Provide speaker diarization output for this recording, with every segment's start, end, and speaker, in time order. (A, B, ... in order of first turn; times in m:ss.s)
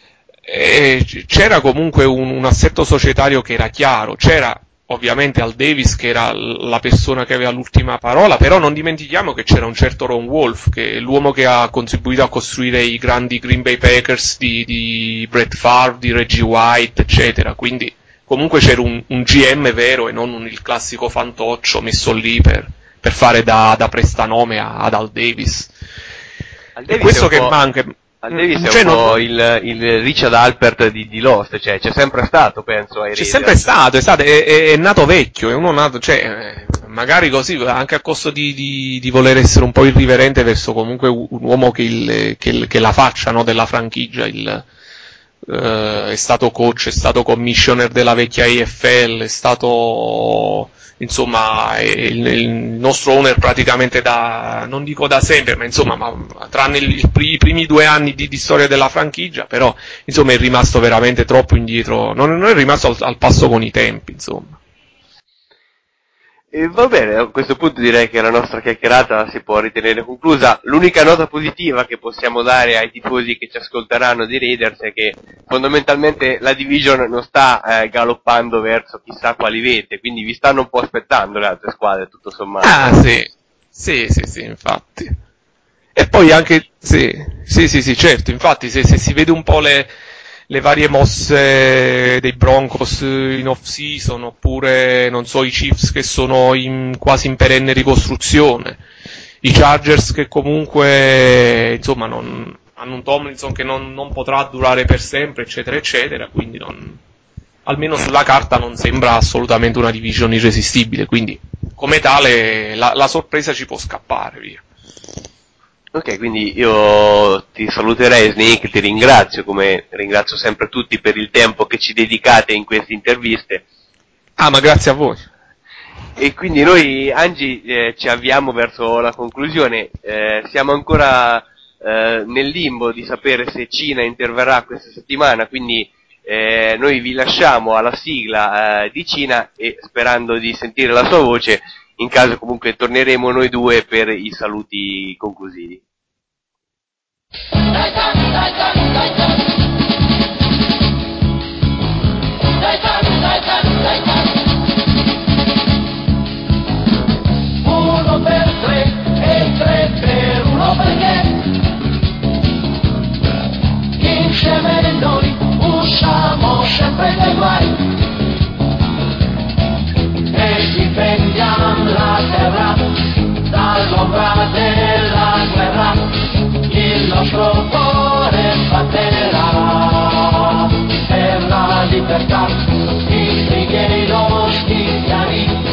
0:00.4-0:25.7 A
0:26.8-0:27.6 B
0:26.9-0:29.2 A
0:28.2-0:33.7 B
0:33.1-0:44.6 A
0:45.4-1:04.6 A
1:06.5-1:22.8 B
1:22.6-1:25.1 A
1:26.0-1:29.9 A
1:30.5-1:38.8 A
1:39.4-1:47.0 A
1:47.6-1:54.6 A
1:55.9-2:03.6 B
2:04.4-2:05.2 A
2:06.2-2:25.8 B
2:37.6-2:41.3 C
2:44.0-2:47.8 C
2:50.4-2:52.7 C
2:53.6-2:55.8 C
2:56.7-2:59.7 C
3:01.4-3:02.4 C
3:03.4-3:05.4 C